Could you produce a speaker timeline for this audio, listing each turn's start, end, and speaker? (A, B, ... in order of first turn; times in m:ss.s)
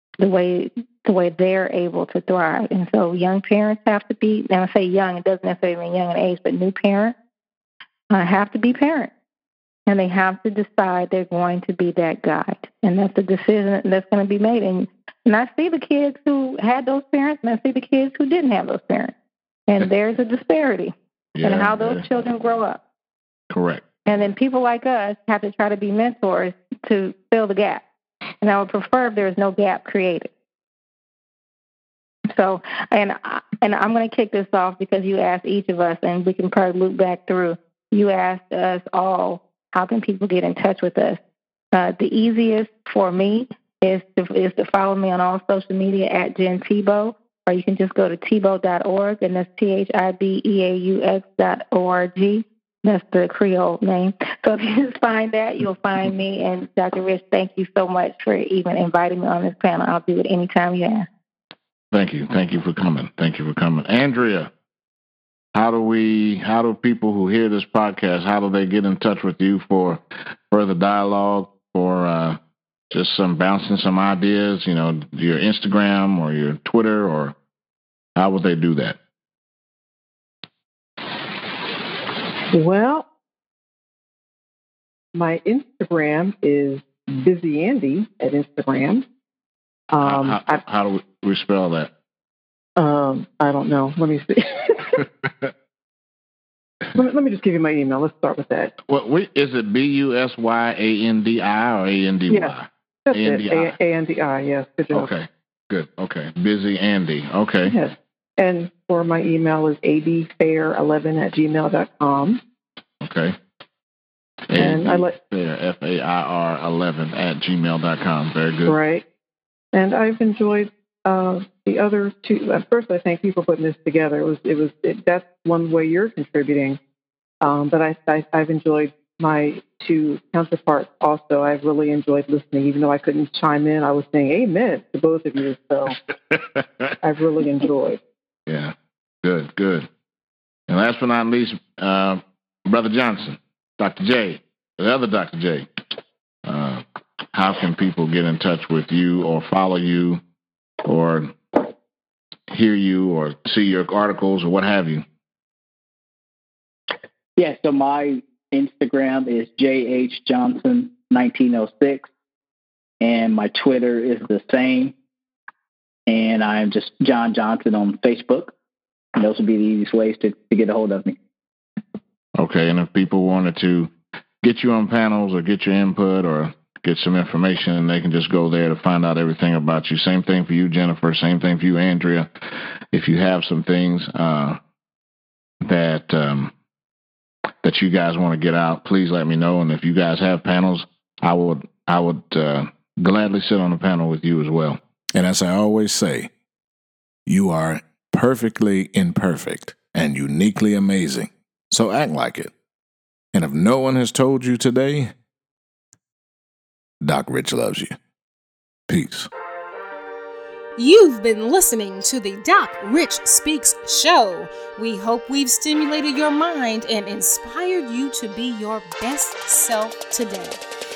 0:00.2-0:07.1 A
0:08.1-0:09.1 A
0:09.9-0:19.1 A
0:19.7-0:22.8 A
0:21.3-0:22.0 B
0:23.5-0:23.8 B
0:24.0-0:27.8 A
0:28.4-0:30.3 A
0:32.3-0:41.2 A
0:41.7-1:01.1 A
1:01.9-1:04.5 B
1:05.5-1:12.4 B
1:12.9-1:17.4 B
1:18.2-1:19.0 B
1:22.5-1:23.0 C
1:25.1-1:29.0 C
1:29.9-1:30.6 C
1:30.0-1:31.9 B
1:32.8-1:35.0 C
1:36.9-1:38.7 C
1:38.8-1:43.8 B
1:42.3-1:42.5 C
1:43.0-1:45.1 C
1:44.9-1:47.8 B
1:47.6-1:52.4 C
1:53.0-1:53.4 B
1:54.5-1:58.8 B
1:54.6-1:55.2 C
1:58.6-1:59.0 C
1:59.7-2:06.8 C
2:07.4-2:16.0 C
2:17.0-2:18.0 C
2:18.5-2:19.9 B
2:20.7-2:25.7 B
2:26.4-2:30.2 B
2:30.8-2:31.7 B
2:32.5-2:35.0 B
2:37.4-2:42.1 D
2:43.0-2:44.9 D
2:46.1-2:48.5 D
2:49.2-2:51.2 D
2:52.4-3:04.6 B
3:05.6-3:06.5 B
3:07.6-3:14.8 B
3:15.1-3:16.3 E
3:17.2-3:22.5 E
3:23.3-3:25.1 E
3:27.0-3:28.0 E
3:28.9-3:29.3 E
3:30.8-3:40.6 F